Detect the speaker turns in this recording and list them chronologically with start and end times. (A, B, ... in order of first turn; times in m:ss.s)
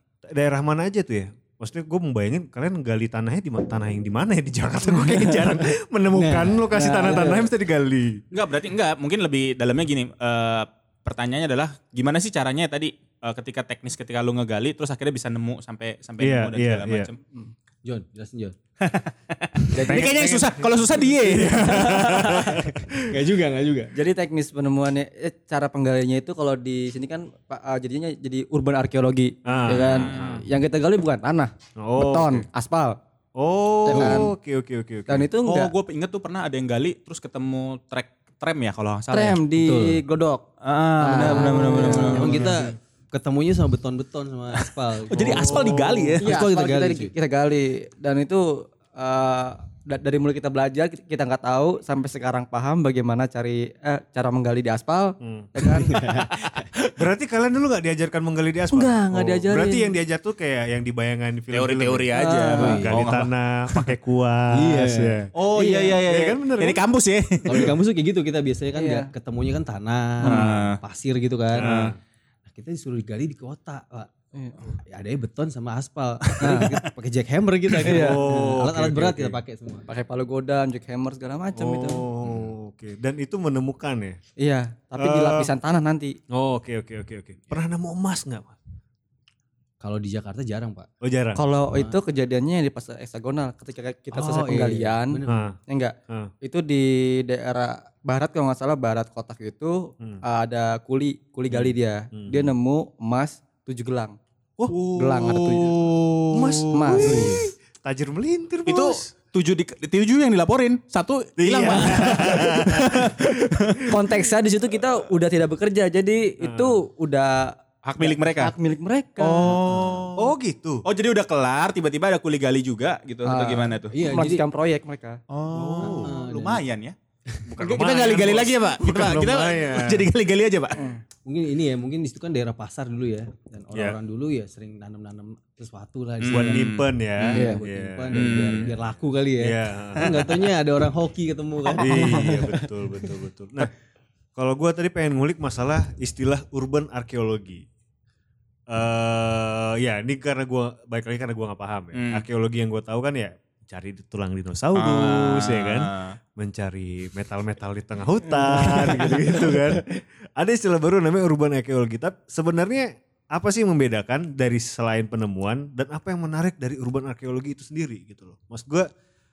0:00.3-0:08.2 A
0:05.1-0:05.4 B
0:06.1-0:06.6 C
0:06.7-0:07.5 B
0:08.3-0:17.2 D
0:16.2-0:17.1 A
0:17.8-0:18.6 C
0:18.8-0:22.7 D
0:19.8-0:23.0 A
0:23.0-0:23.9 C
0:23.9-0:33.0 B
0:29.4-0:30.4 A
0:29.7-0:30.3 D
0:31.8-0:32.5 A
0:33.4-0:35.3 A
0:33.8-0:34.3 B
0:33.9-0:34.2 C
0:35.1-0:35.7 B
0:35.4-0:39.4 D
0:39.1-0:40.4 B
0:39.6-0:40.0 C
0:40.6-0:42.5 D
0:41.0-0:42.5 B
0:41.8-0:47.1 C
0:42.1-0:42.7 A
0:45.1-0:46.3 D
0:45.2-0:46.2 A
0:46.2-0:56.0 B
0:55.2-0:55.5 A
0:55.6-0:56.7 C
0:57.0-1:05.3 A
0:58.7-0:59.9 B
1:01.5-1:03.9 D
1:02.1-1:02.8 B
1:02.6-1:02.9 C
1:04.5-1:05.2 C
1:05.3-1:07.7 D
1:05.5-1:06.0 B
1:06.0-1:06.8 A
1:07.4-1:11.7 C
1:08.7-1:09.1 B
1:10.2-1:10.5 B
1:10.2-1:10.8 D
1:11.5-1:11.9 D
1:11.5-1:12.0 A
1:12.5-1:14.1 C
1:14.3-1:14.7 B
1:14.9-1:19.9 C
1:16.4-1:16.8 B
1:17.8-1:19.4 A
1:17.9-1:18.2 B
1:19.9-1:22.0 B
1:21.5-1:24.2 A
1:24.4-1:26.2 B
1:25.0-1:25.5 A
1:26.3-1:28.6 A
1:29.8-1:30.9 C
1:31.0-1:31.4 A
1:31.3-1:44.2 B
1:31.7-1:32.0 C
1:34.1-1:35.5 C
1:35.3-1:35.6 A
1:41.5-1:42.5 A
1:44.6-1:47.0 D
1:45.0-1:45.7 B
1:46.3-1:49.1 A
1:46.7-1:47.4 B
1:47.0-1:47.4 C
1:48.7-1:53.8 D
1:51.4-1:54.0 A
1:51.7-1:52.0 B
1:53.9-1:59.6 B
1:56.4-1:56.8 A
1:57.8-1:58.5 D
1:59.2-2:00.3 D
2:00.1-2:00.8 A
2:00.8-2:03.9 D
2:03.2-2:05.2 B
2:03.9-2:04.4 C
2:05.3-2:06.9 D
2:05.5-2:06.1 A
2:05.8-2:06.6 C
2:07.4-2:10.1 A
2:07.6-2:10.8 D
2:10.7-2:11.0 B
2:11.2-2:16.7 C
2:16.2-2:17.3 D
2:16.2-2:18.8 A
2:17.3-2:22.3 C
2:17.3-2:17.6 B
2:18.1-2:18.7 D
2:19.4-2:20.3 A
2:21.8-2:23.7 A
2:21.8-2:22.6 B
2:24.3-2:27.6 A
2:28.7-2:48.9 A
2:31.9-2:32.2 D
2:34.7-2:36.2 D
2:38.3-2:39.8 B